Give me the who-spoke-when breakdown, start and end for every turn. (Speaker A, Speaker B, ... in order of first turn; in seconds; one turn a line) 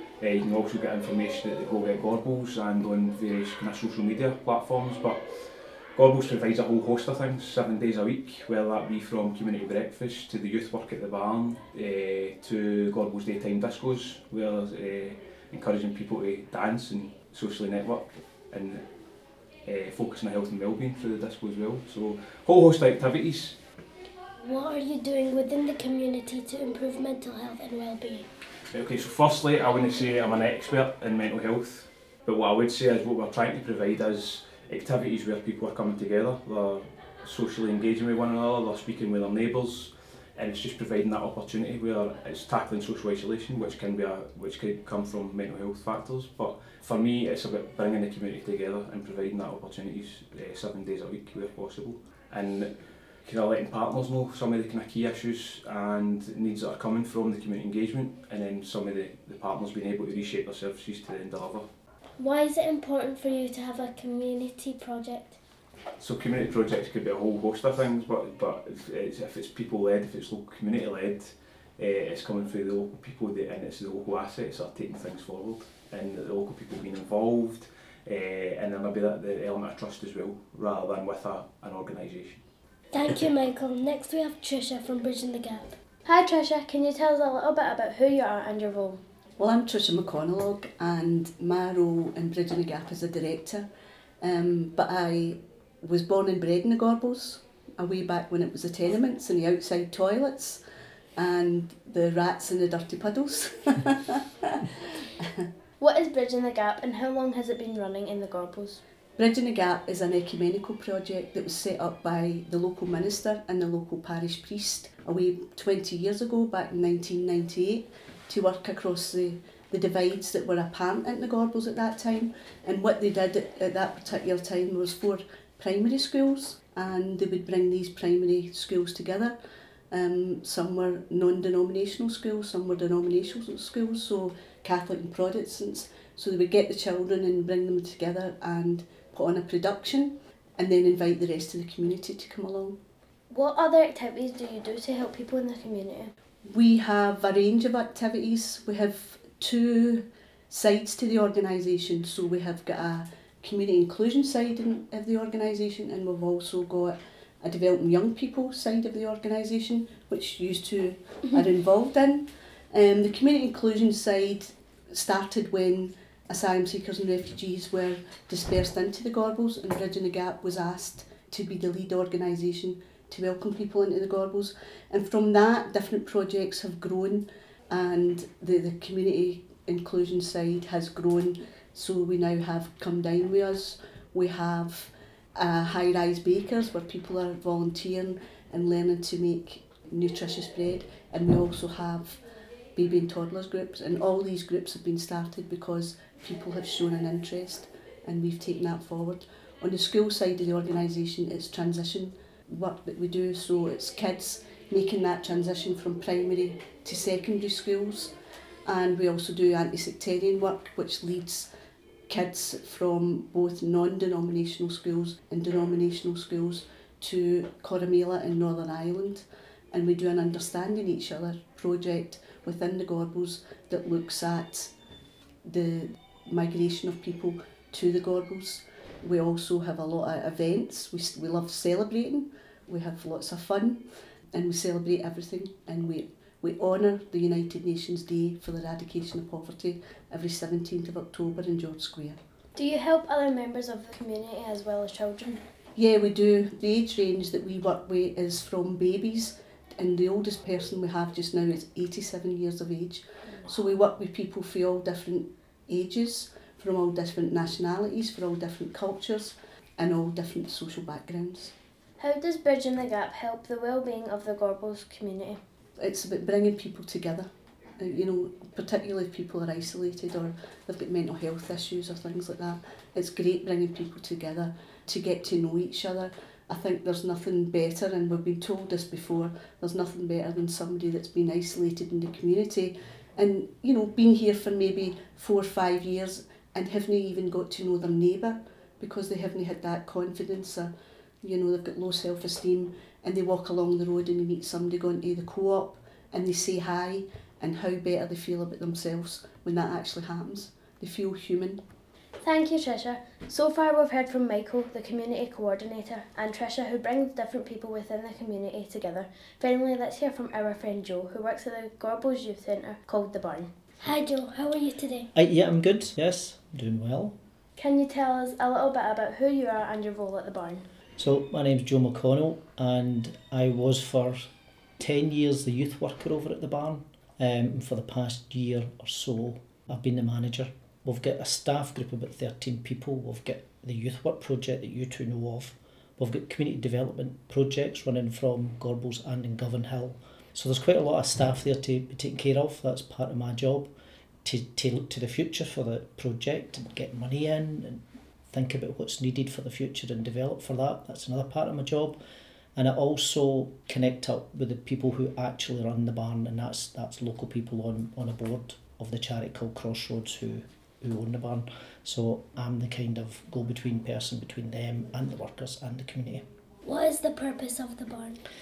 Speaker A: 0.2-5.2
Speaker A: 5.9-18.8
Speaker A: 19.7-23.6
Speaker B: 24.4-28.3
Speaker A: 28.7-61.6
Speaker B: 62.2-65.4
Speaker A: 66.0-82.4
Speaker B: 82.9-85.8
Speaker C: 86.0-89.0
Speaker D: 89.4-93.7
Speaker D: 94.2-100.6
Speaker D: 101.2-104.8
Speaker C: 105.8-108.8
Speaker D: 109.2-129.3
Speaker D: 129.9-142.8
Speaker C: 143.7-146.1
Speaker D: 146.4-192.2
Speaker D: 192.8-208.1
Speaker D: 208.7-211.5
Speaker D: 212.1-224.7
Speaker D: 225.4-233.8
Speaker D: 234.3-242.2
Speaker C: 242.6-245.4
Speaker D: 245.8-261.5
Speaker C: 262.0-265.4
Speaker D: 265.8-267.2
Speaker D: 267.8-290.7
Speaker D: 291.2-301.6
Speaker C: 302.2-313.5
Speaker B: 313.8-315.1
Speaker E: 315.1-317.1
Speaker C: 317.6-320.6
Speaker E: 321.0-324.2
Speaker E: 324.8-343.7
Speaker E: 344.2-352.0
Speaker E: 352.6-366.2
Speaker B: 366.6-368.2